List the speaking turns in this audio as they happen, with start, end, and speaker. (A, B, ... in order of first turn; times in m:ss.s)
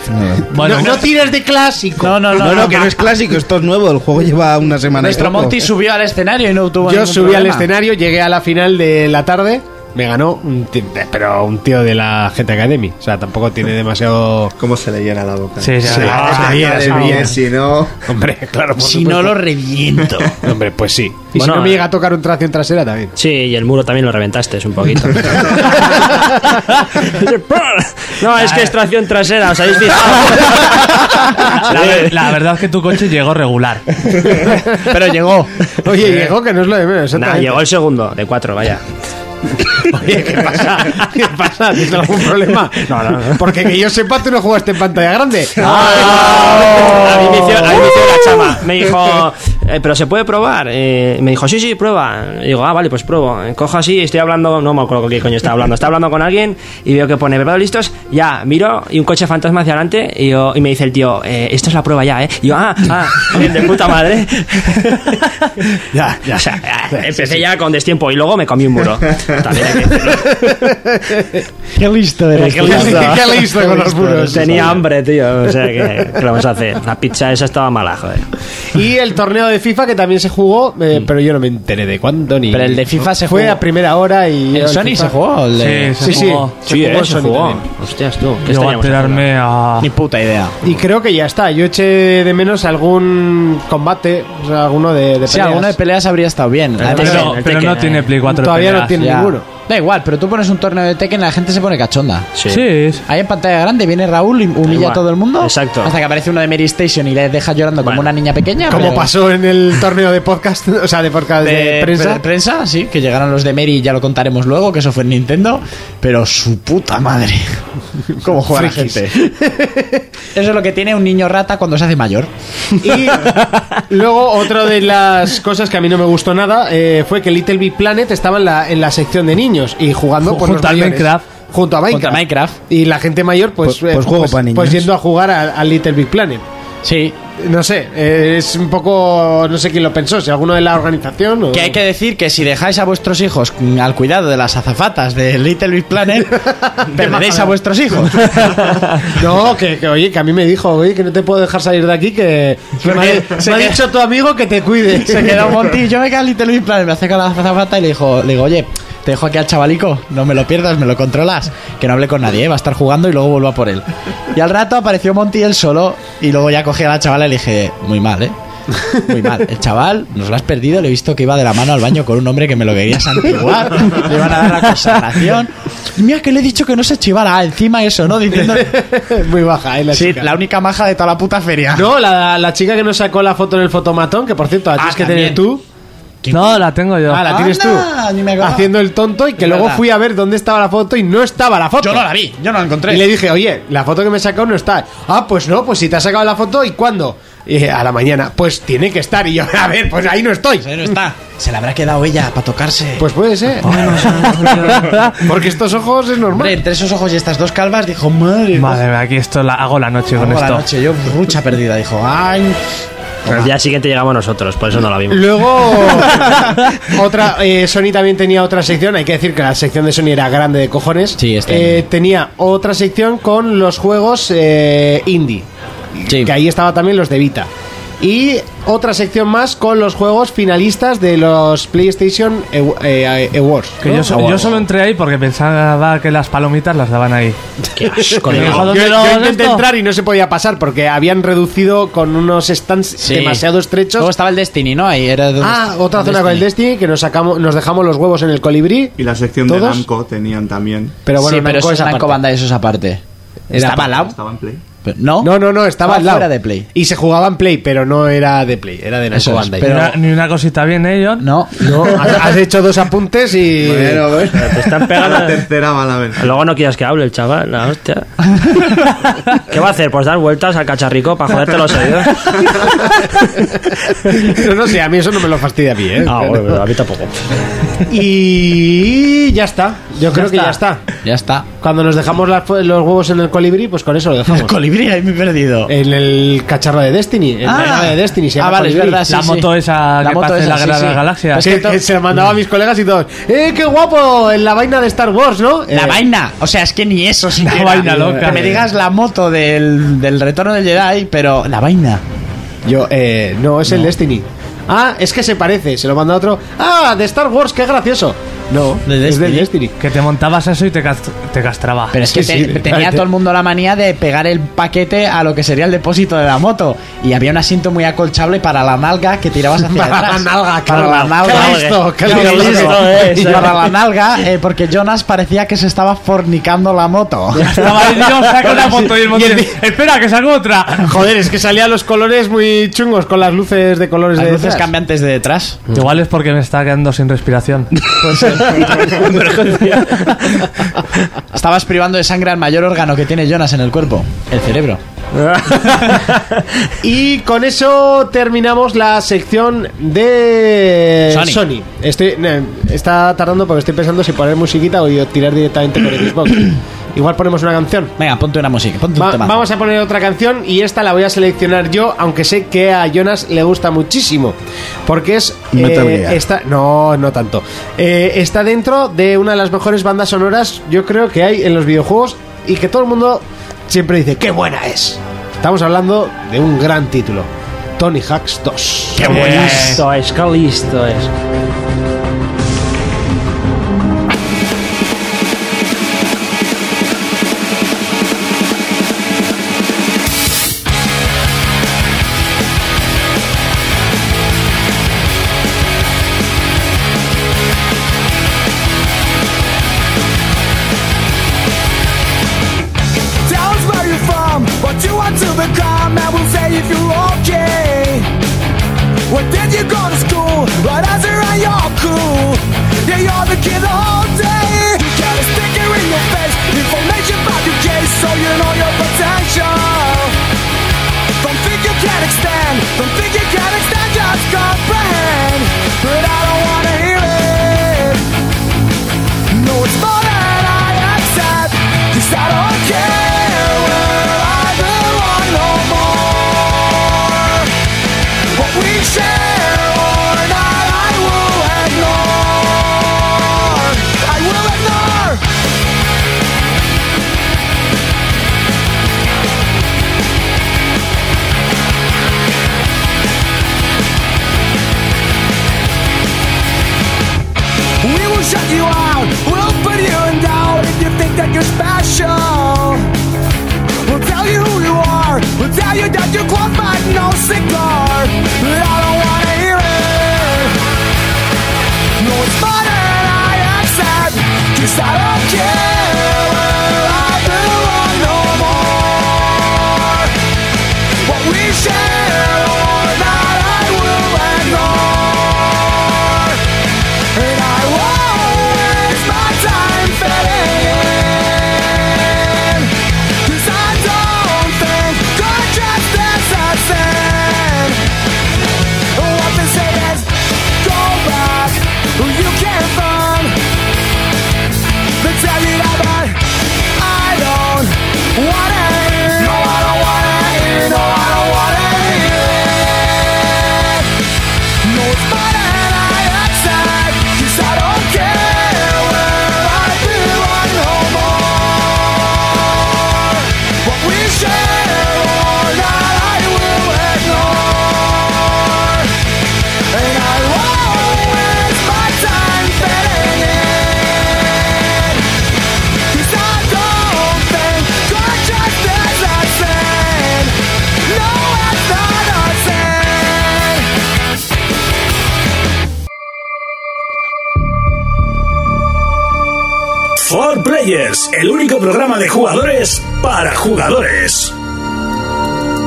0:00.1-0:01.0 A
0:00.5-0:02.8 B
0:00.5-0:00.9 C
0:02.0-0:03.0 D
0:02.4-0:05.6 A
0:04.9-0:07.7 D
0:06.8-0:14.5 B
0:14.6-0:18.0 E
0:15.6-0:16.2 C
0:15.8-0:17.4 B
0:16.1-0:17.3 F
0:18.1-0:19.4 B
0:18.8-0:20.4 D
0:20.4-0:23.1 B
0:21.4-0:21.8 F
0:23.2-0:31.0 F
0:25.8-0:26.5 B
0:28.4-0:28.7 B
0:30.3-0:30.8 B
0:31.5-0:34.4 C
0:31.7-0:32.3 F
0:34.2-0:34.9 B
0:34.8-0:35.5 D
0:35.8-0:37.6 B
0:36.1-0:36.3 C
0:37.2-0:38.8 F
0:39.6-0:47.6 B
0:42.9-0:43.4 F
0:45.6-1:05.2 F
1:05.9-1:06.3 B
1:06.2-1:10.4 F
1:06.9-1:07.3 B
1:10.2-1:11.4 B
1:11.8-1:14.8 D
1:12.4-1:13.2 F
1:12.6-1:14.8 B
1:14.3-1:18.3 F
1:18.8-1:25.2 B
1:22.5-1:23.6 D
1:24.5-1:26.3 D
1:25.6-1:26.6 C
1:26.0-1:27.6 B
1:26.6-1:29.3 F
1:28.5-1:29.9 C
1:29.8-1:30.6 D
1:30.6-1:35.8 B
1:35.3-1:37.4 D
1:36.8-1:38.1 F
1:36.9-1:39.1 C
1:38.2-1:39.4 B
1:39.0-1:42.3 D
1:42.4-1:42.7 F
1:42.5-1:43.0 C
1:43.0-1:49.1 D
1:44.7-1:45.9 F
1:47.8-1:48.1 F
1:48.7-1:52.2 B
1:51.4-1:57.6 D
1:58.2-1:59.3 D
1:58.5-2:00.0 B
2:00.3-2:02.3 D
2:02.8-2:16.4 B
2:10.2-2:11.2 C
2:11.9-2:12.6 D
2:13.6-2:14.9 A
2:16.8-2:17.2 D
2:17.4-2:21.8 B
2:21.5-2:28.6 D
2:26.4-2:27.5 B
2:29.0-2:35.6 B
2:32.8-2:33.8 D
2:34.9-2:48.4 D
2:48.9-2:58.8 D
2:53.8-2:54.1 B
2:58.4-3:00.3 B
2:59.9-3:01.9 D
3:01.8-3:05.6 B
3:04.8-3:05.4 D
3:06.2-3:08.7 D
3:06.3-3:07.3 C
3:07.1-3:07.9 B
3:08.4-3:12.1 B
3:09.4-3:09.8 D
3:11.8-3:13.1 D
3:12.9-3:20.9 B
3:20.6-3:23.1 D
3:23.0-3:24.1 B
3:23.6-3:25.2 C
3:23.7-3:24.9 F
3:25.2-3:26.6 B
3:26.3-3:28.8 D
3:28.6-3:30.7 C
3:30.1-3:32.6 D
3:33.2-3:33.5 D
3:33.3-3:35.8 F
3:35.1-3:45.5 B
3:41.2-3:41.8 D
3:46.0-3:47.5 B
3:46.1-3:46.3 D
3:48.0-3:54.6 B
3:53.8-3:57.4 C
3:57.8-3:58.8 F
3:57.9-4:04.1 B
3:58.3-3:59.7 C
4:03.0-4:06.5 D
4:05.4-4:08.9 B
4:09.0-4:11.0 E
4:09.4-4:09.8 B
4:11.0-4:12.2 B
4:11.2-4:14.2 D
4:13.5-4:13.9 B
4:14.0-4:14.6 E
4:14.8-4:16.7 D
4:15.2-4:19.7 B
4:19.1-4:20.0 D
4:19.6-4:21.3 C
4:21.2-4:22.0 D
4:21.6-4:24.1 B
4:23.6-4:26.2 E
4:24.3-4:25.4 F
4:26.2-4:28.8 F
4:29.4-4:32.5 F
4:33.5-4:36.6 B
4:36.0-4:37.1 F
4:37.8-4:40.8 B
4:40.1-4:41.5 D
4:41.6-4:44.6 B
4:44.3-4:45.7 D
4:45.7-4:49.0 B
4:47.4-4:51.8 D
4:49.1-4:51.5 C
4:51.4-4:56.1 B
4:55.7-5:02.0 D
4:57.4-4:58.5 C
4:57.6-4:58.7 B
5:02.7-5:09.8 B
5:08.8-5:09.5 D
5:09.8-5:12.0 C
5:11.9-5:27.7 D
5:12.0-5:13.0 B
5:19.7-5:23.4 B
5:20.8-5:23.6 F
5:27.4-5:31.0 C
5:28.4-5:29.6 B
5:30.8-5:34.7 B
5:34.2-5:35.7 D
5:35.7-5:37.7 C
5:37.9-5:39.1 D
5:38.6-5:40.4 F
5:41.3-5:44.8 D
5:45.2-5:46.2 F
5:46.8-5:57.9 B
5:51.1-5:51.4 D
5:58.0-5:59.5 D
5:59.0-6:19.6 B
6:05.5-6:06.2 A
6:19.0-6:19.8 D
6:19.0-6:19.8 C
6:19.1-6:21.1 F
6:43.3-6:48.1 G
6:49.1-7:00.2 G
7:01.2-7:08.0 G
7:09.3-7:17.5 G
7:18.3-7:25.2 G
7:37.8-7:42.9 G
7:43.8-7:50.6 G
7:52.0-8:00.1 G
8:01.0-8:06.4 G
8:07.1-8:12.7 G
8:13.2-8:17.8 G
8:19.0-8:23.4 G
8:25.0-8:26.2 G
8:26.7-8:33.8 G
8:34.6-8:48.9 G
8:49.7-8:55.0 G
8:55.9-9:00.3 G
9:00.8-9:03.7 G
9:10.0-9:14.3 H